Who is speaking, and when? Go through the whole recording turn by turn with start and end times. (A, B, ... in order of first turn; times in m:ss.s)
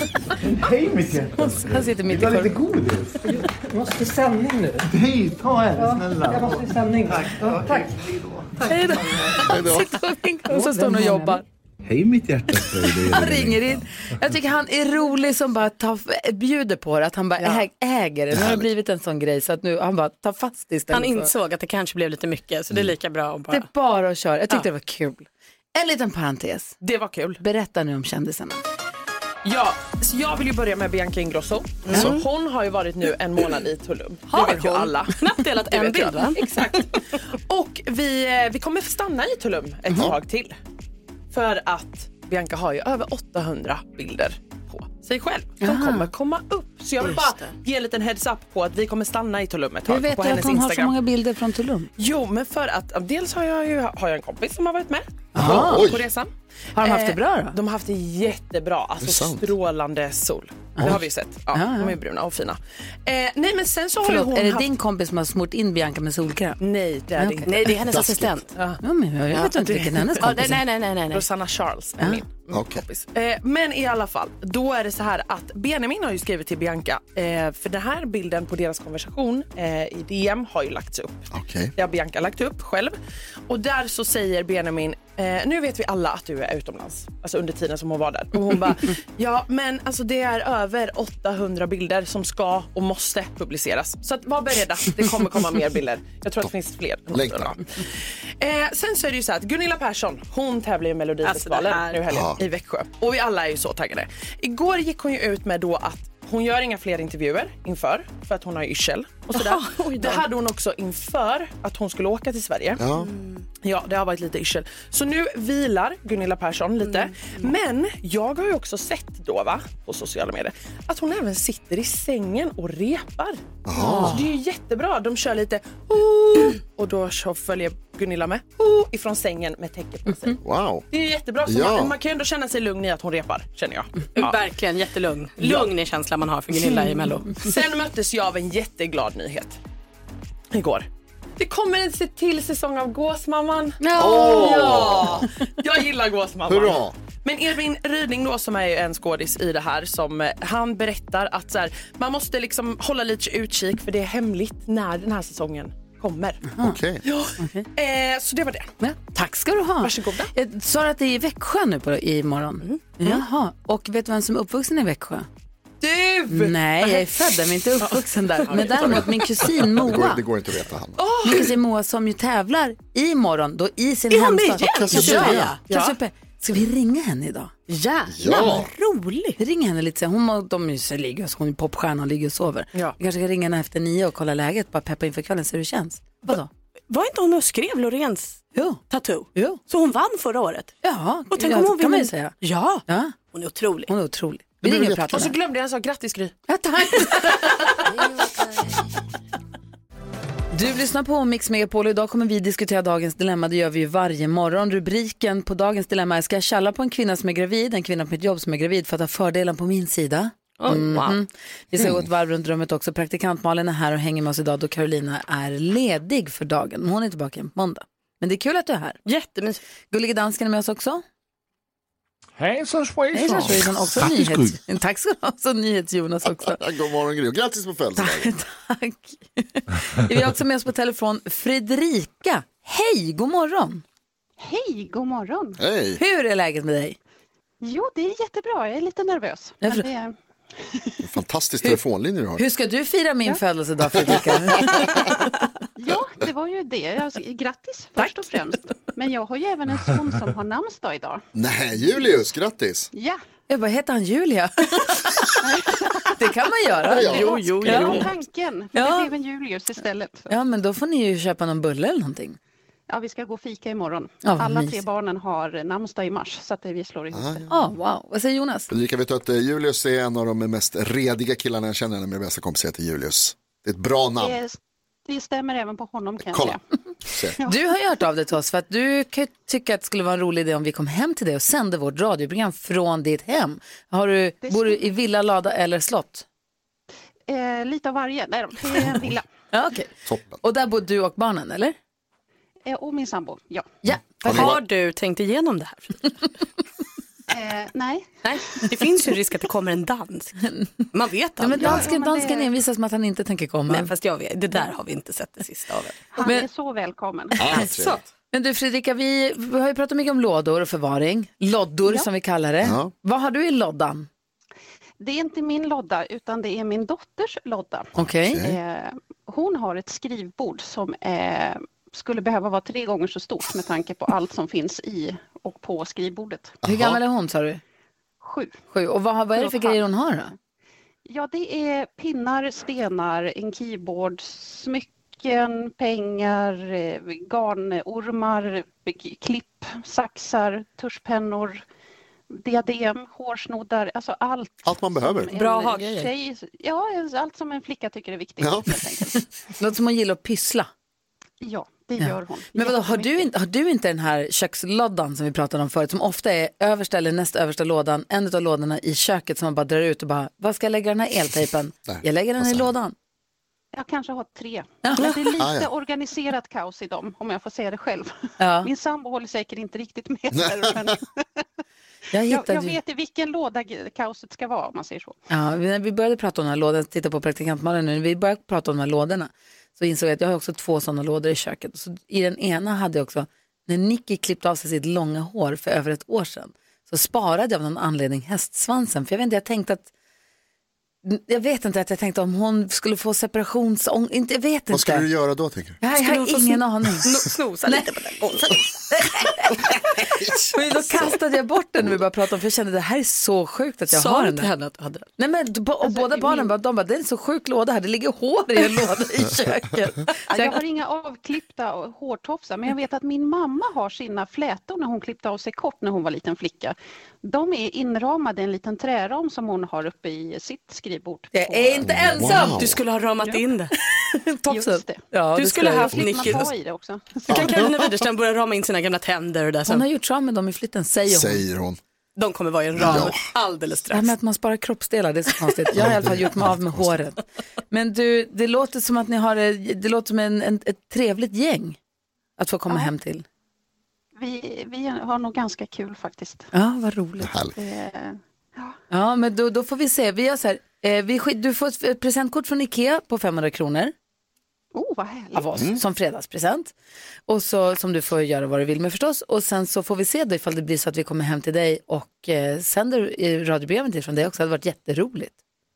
0:00.4-0:03.2 A
0:01.4-0:02.6 B
0:03.3-0:04.9 C
0:04.9-0:08.5 A
0:05.8-0:08.0 C
0:08.6-0:09.4 C
0:08.7-0:11.4 B
0:09.4-0:09.9 D
0:10.5-0:11.4 C
0:11.8-0:13.8 A
0:12.9-0:21.3 B
0:18.3-0:18.7 D
0:20.9-0:23.7 E
0:23.5-0:26.8 B
0:26.8-0:27.4 F
0:27.4-0:28.6 B
0:29.4-0:40.6 F
0:31.9-0:32.3 E
0:34.3-0:36.8 E
0:39.9-0:40.2 D
0:41.3-0:51.0 F
0:45.6-0:46.1 B
0:47.0-0:47.3 E
0:49.9-0:51.9 B
0:52.0-1:04.7 F
0:55.3-0:55.9 B
0:55.4-0:56.0 D
0:56.8-0:57.6 B
0:59.0-0:59.5 D
1:01.5-1:02.0 B
1:04.0-1:06.6 B
1:06.6-1:07.6 F
1:07.2-1:07.5 B
1:07.5-1:08.5 E
1:07.8-1:08.4 D
1:08.8-1:10.6 B
1:09.4-1:11.3 E
1:10.2-1:10.5 F
1:11.1-1:23.0 F
1:12.5-1:12.8 D
1:21.3-1:21.7 D
1:23.5-1:52.8 F
1:37.1-1:37.6 D
1:41.2-1:42.0 E
1:42.1-1:42.4 D
1:49.3-1:50.3 E
1:52.8-1:53.1 D
1:52.9-1:53.5 E
1:53.6-2:10.4 F
1:56.8-1:57.5 E
2:03.6-2:04.2 D
2:03.8-2:04.2 B
2:10.4-2:10.8 D
2:10.9-2:14.4 F
2:11.4-2:12.0 D
2:14.2-2:17.5 E
2:15.4-2:15.7 F
2:17.3-2:19.6 F
2:20.5-2:36.5 F
2:23.8-2:25.0 B
2:23.9-2:25.3 D
2:26.5-2:27.0 D
2:36.5-2:36.8 B
2:36.6-2:37.0 D
2:37.0-2:38.7 F
2:37.4-2:37.7 B
2:38.8-2:45.3 B
2:39.8-2:40.3 F
2:45.8-2:47.0 F
2:46.3-2:50.2 B
2:47.8-2:49.4 F
2:49.6-2:51.1 D
2:51.0-2:51.5 F
2:51.2-2:57.5 B
2:54.1-2:55.6 E
2:54.8-2:55.6 D
2:55.7-2:56.0 F
2:57.7-2:59.4 E
2:58.2-2:58.7 D
2:59.4-3:06.5 B
3:06.9-3:10.8 E
3:08.6-3:08.8 B
3:09.4-3:09.6 B
3:10.8-3:12.4 B
3:11.3-3:13.9 E
3:12.9-3:13.1 B
3:13.9-3:15.4 B
3:14.7-3:15.0 D
3:14.7-3:16.3 F
3:16.5-3:17.5 B
3:20.5-3:39.0 B
3:30.6-3:31.2 E
3:39.1-3:39.6 E
3:39.9-3:41.0 B
3:42.4-3:44.6 G
3:43.1-3:46.6 B
3:46.3-3:48.3 D
3:48.0-3:53.8 B
3:54.4-3:55.6 H
3:55.6-3:56.0 D
3:56.0-3:57.0 B
3:57.6-4:00.2 H
4:01.0-4:02.4 D
4:02.4-4:05.0 B
4:04.0-4:04.2 D
4:05.8-4:11.2 H
4:11.4-4:12.9 D
4:12.9-4:13.2 H
4:13.5-4:15.2 B
4:15.4-4:16.1 H
4:16.1-4:18.1 B
4:16.9-4:17.5 D
4:17.0-4:18.1 E
4:17.1-4:20.3 H
4:18.7-4:19.1 B
4:20.3-4:22.4 B
4:22.9-4:27.5 H
4:24.2-4:24.8 B
4:27.1-4:27.5 D
4:27.5-4:28.7 B
4:28.7-4:34.4 D
4:34.2-4:36.6 H
4:36.3-4:36.6 D
4:37.1-4:37.4 D
4:37.4-4:46.2 B
4:44.4-4:44.8 H
4:47.3-4:49.2 H
4:49.5-4:49.9 B
4:50.1-4:50.4 D
4:50.4-4:51.8 B
4:52.7-4:53.7 H
4:53.8-4:54.6 B
4:54.2-4:54.6 D
4:54.2-4:56.1 E
4:57.3-4:58.2 H
4:58.2-5:01.8 E
5:01.4-5:03.9 B
5:01.6-5:02.5 H
5:03.7-5:06.0 E
5:06.1-5:07.4 H
5:07.4-5:08.0 D
5:07.5-5:07.7 B
5:08.3-5:14.1 B
5:12.6-5:12.9 D
5:15.0-5:26.6 H
5:18.0-5:18.5 B
5:18.0-5:18.6 D
5:26.6-5:27.0 D
5:26.6-5:27.6 B
5:28.2-5:28.6 H
5:28.7-5:30.3 B
5:29.4-5:29.8 H
5:31.1-5:41.6 H
5:42.3-5:49.2 H
5:44.6-5:45.3 D
5:45.4-5:46.1 E
5:48.4-5:48.8 D
5:49.2-5:50.7 B
5:51.4-5:53.3 H
5:52.0-6:03.0 B
6:01.9-6:02.7 D
6:03.7-6:11.4 H
6:04.8-6:05.2 B
6:05.4-6:05.7 D
6:08.4-6:08.7 B
6:10.3-6:10.9 D
6:12.1-6:12.8 B
6:12.3-6:15.2 H
6:15.3-6:29.9 B
6:31.0-6:35.1 B
6:34.7-6:35.8 D
6:35.8-6:37.1 B
6:36.0-6:38.6 E
6:38.9-6:39.8 B
6:40.0-6:41.1 D
6:40.5-6:44.5 B
6:43.9-6:45.1 E
6:45.2-6:50.6 B
6:45.8-6:46.5 H
6:50.3-7:01.9 H
7:01.3-7:02.6 B
7:01.8-7:02.8 D
7:02.2-7:03.7 E
7:04.2-7:06.1 B
7:04.5-7:05.0 H
7:05.4-7:06.5 E
7:05.9-7:07.6 H
7:07.3-7:09.8 E
7:07.3-7:07.7 D
7:09.7-7:11.4 B
7:11.1-7:11.8 D
7:12.2-7:14.1 E
7:12.8-7:13.2 D
7:13.9-7:21.8 B
7:15.7-7:17.0 D
7:22.4-7:23.2 B
7:24.2-7:26.5 H
7:26.5-7:27.4 B
7:27.2-7:27.6 D
7:27.6-7:28.8 H
7:28.9-7:33.9 B
7:34.7-7:35.5 H
7:35.3-7:36.7 B
7:37.3-7:45.4 B